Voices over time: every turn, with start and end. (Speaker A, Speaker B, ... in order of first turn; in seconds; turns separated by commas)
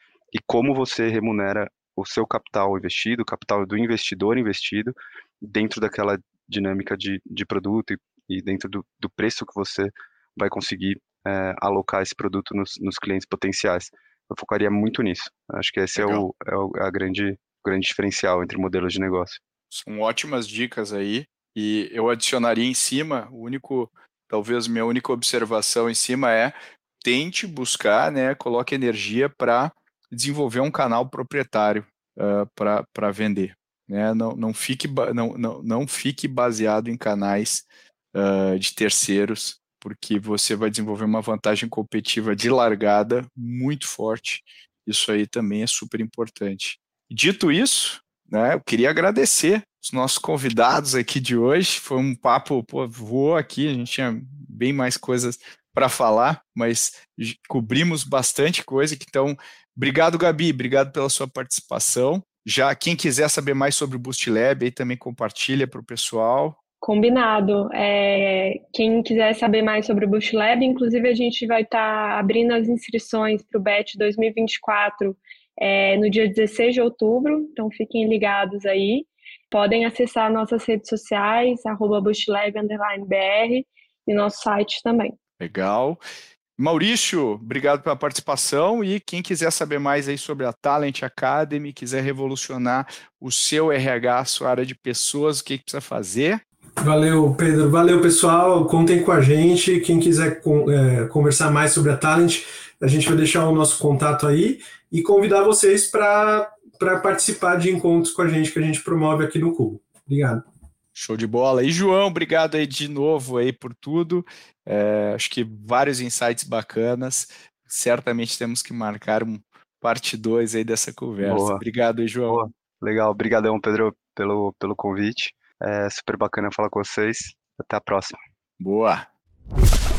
Speaker A: 0.3-19.4, Speaker B: 15.9-16.2, Speaker B: 19.7-66.6, Speaker C: 66.8-85.2, Speaker B: 85.4-86.0, Speaker B: 86.6-96.4, Speaker D: 96.8-110.4, Speaker B: 110.9-122.4, Speaker A: 121.2-121.6, Speaker A: 122.3-128.2, Speaker B: 128.6-129.1